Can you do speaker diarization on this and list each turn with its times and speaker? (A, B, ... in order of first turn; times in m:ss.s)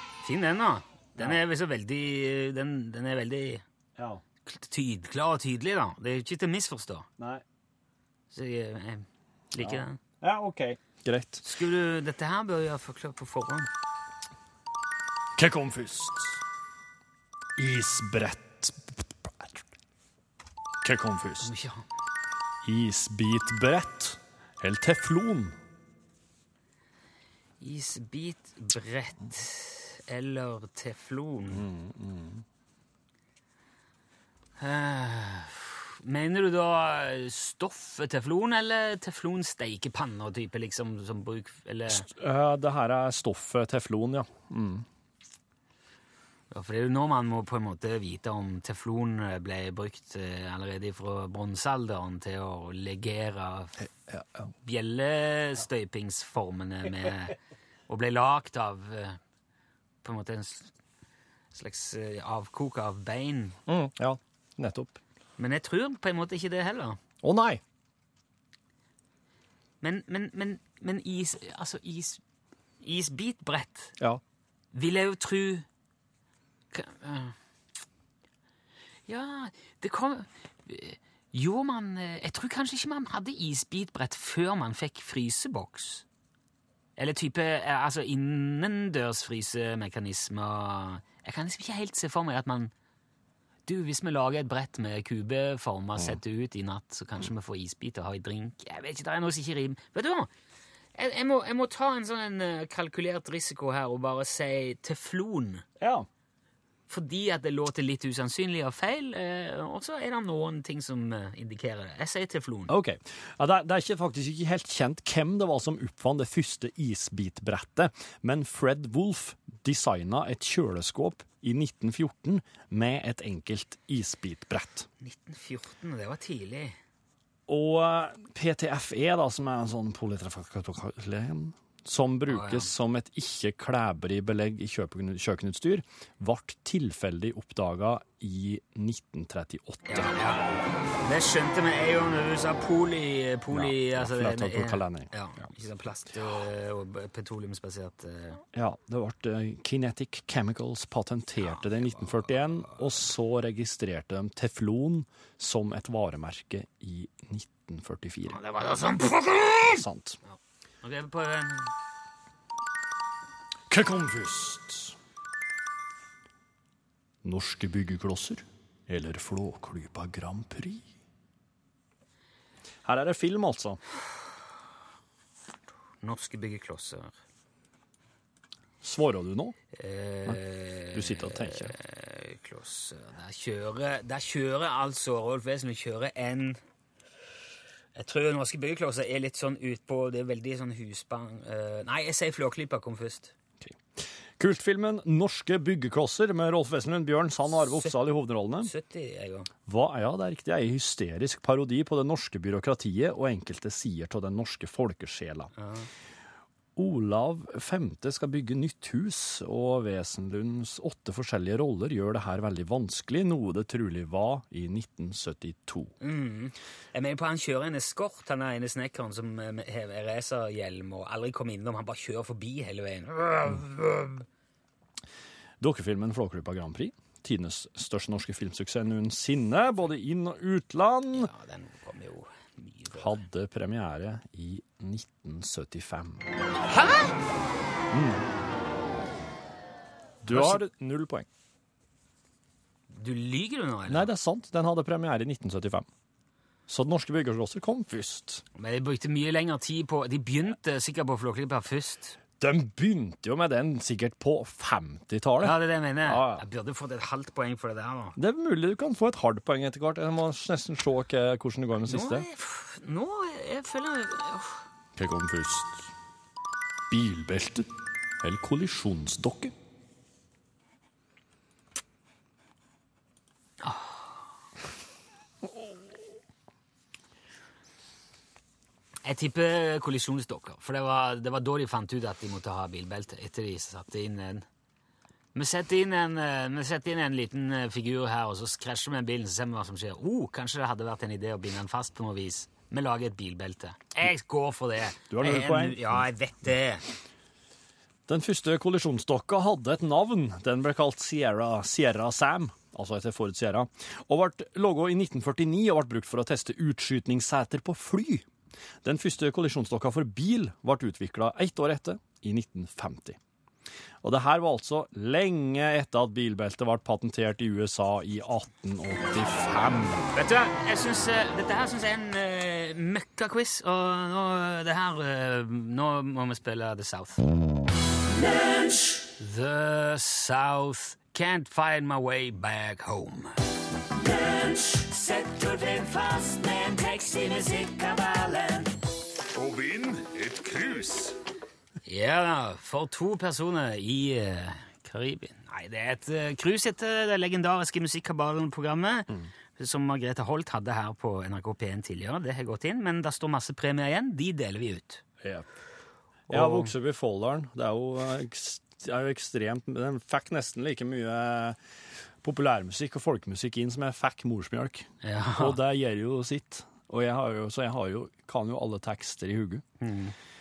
0:00.2-0:03.6 A
0:01.2-0:01.4 B
0:04.0-0:04.2 B
0:04.4-0:07.1 A
0:07.2-0:07.4 B
0:08.3-0:10.0 A
0:09.6-0:11.4 B
0:11.4-0:13.7 A
0:15.4-0:16.4 B
0:17.6-0:19.6 B
0:20.8-0:21.5 B
0:21.4-0:21.8 A
0:22.6-0:25.6 B
0:27.6-0:31.7 A
0:31.5-0:32.4 B
0:34.6-0:42.1 A
0:41.9-0:44.8 B
0:46.5-0:53.8 A
0:53.8-0:54.5 B
0:54.6-0:57.4 A
0:57.9-0:59.2 A
1:00.0-1:00.7 A
1:01.5-1:03.6 A
1:03.7-1:05.0 B
1:05.4-1:07.0 A
1:07.2-1:07.6 B
1:09.8-1:12.2 A
1:12.8-1:13.9 A
1:14.7-1:15.6 A
1:16.7-1:17.3 A
1:19.1-1:26.0 A
1:27.0-1:32.7 A
1:33.6-1:40.3 A
1:40.9-1:45.6 A
1:45.8-1:46.1 B
1:46.9-1:52.7 A
1:52.7-2:04.9 B
2:05.0-2:06.8 A
2:07.5-2:20.2 B
2:12.3-2:12.7 A
2:19.9-2:28.4 A
2:23.5-2:25.5 B
2:28.5-2:38.4 B
2:31.4-2:32.8 A
2:38.3-2:41.7 A
2:39.7-2:40.2 B
2:43.7-2:45.0 B
2:47.2-2:50.9 B
2:52.8-2:53.8 B
2:56.0-2:57.1 A
2:58.8-2:59.6 B
2:59.7-3:06.6 A
3:00.9-3:01.7 B
3:07.9-3:13.3 A
3:13.6-3:18.7 B
3:17.7-3:17.9 A
3:18.6-3:19.5 A
3:19.7-3:25.5 B
3:25.6-3:25.9 A
3:26.8-3:35.9 B
3:36.0-3:44.2 A
3:45.6-3:51.3 B
3:51.1-3:53.1 A
3:53.0-3:56.3 B
3:56.7-3:57.1 A
3:57.9-3:58.3 B
4:00.2-4:01.3 B
4:00.3-4:00.6 A
4:02.9-4:04.1 A
4:03.9-4:05.9 B
4:06.7-4:08.4 B
4:08.5-4:12.2 A
4:12.4-4:16.4 B
4:15.4-4:18.2 A
4:18.2-4:22.2 B
4:21.8-4:24.6 A
4:25.0-4:25.9 B
4:26.9-4:29.5 B
4:33.6-4:34.2 A
4:39.0-4:44.4 A
4:45.3-4:56.8 A
4:55.1-4:56.0 B
4:58.1-5:08.3 B
5:08.8-5:13.2 B
5:14.0-5:20.1 B
5:20.1-5:27.2 A
5:28.9-5:33.3 A
5:33.9-5:38.7 A
5:39.3-5:41.1 B
5:41.8-5:55.0 A
5:55.2-5:55.4 B
5:56.3-6:01.6 B
5:56.3-5:56.7 A
6:02.2-6:09.6 B
6:05.0-6:05.6 A
6:09.8-6:10.1 A